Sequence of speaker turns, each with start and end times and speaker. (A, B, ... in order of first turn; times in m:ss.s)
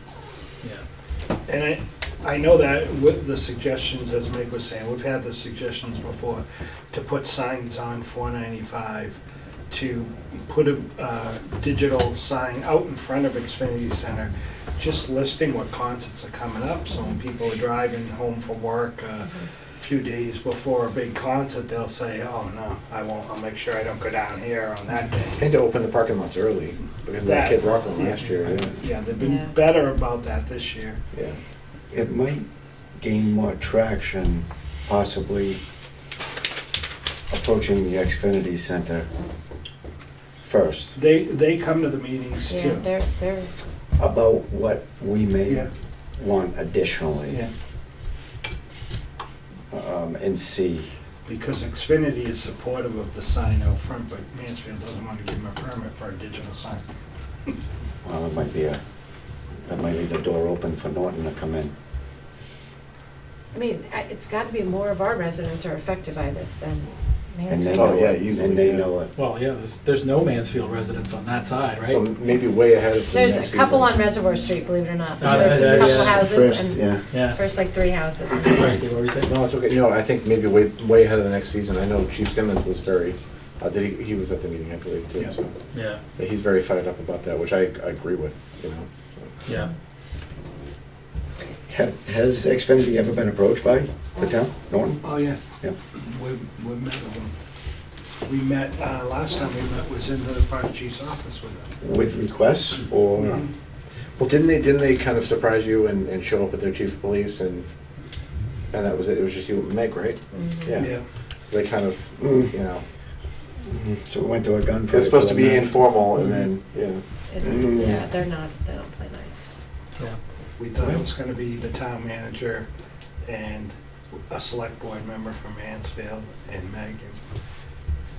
0:01.5-0:09.2 A
0:09.7-0:25.5 A
0:25.4-0:28.7 B
0:27.2-0:31.0 A
0:29.2-0:29.5 C
0:31.9-0:32.4 D
0:33.0-0:35.6 D
0:37.3-0:39.1 D
0:40.4-0:40.9 D
0:40.9-0:42.9 A
0:42.5-0:43.5 C
0:44.0-0:47.4 D
0:49.7-0:50.9 D
0:51.3-0:56.8 A
0:58.0-0:58.8 D
0:59.7-1:01.7 D
1:03.5-1:08.0 C
1:07.5-1:09.1 D
1:07.8-1:08.8 B
1:09.2-1:12.0 E
1:11.8-1:13.9 B
1:13.1-1:18.6 C
1:15.2-1:16.2 E
1:15.2-1:17.0 D
1:17.1-1:17.4 E
1:18.4-1:19.3 E
1:19.3-1:25.5 B
1:25.7-1:26.0 E
1:26.2-1:29.3 B
1:31.7-1:35.1 D
1:35.0-1:35.4 A
1:36.0-1:37.3 A
1:38.3-1:41.7 A
1:41.8-1:43.4 D
1:43.2-1:43.5 A
1:44.2-1:47.7 B
1:48.7-1:50.9 B
1:50.3-1:50.8 C
1:50.8-1:51.0 A
1:51.4-1:52.8 B
1:52.2-1:52.5 D
1:53.6-1:55.8 D
1:54.9-1:57.0 B
1:57.3-1:59.5 C
1:57.4-1:58.0 D
2:00.6-2:02.7 A
2:03.2-2:03.7 A
2:04.3-2:07.2 A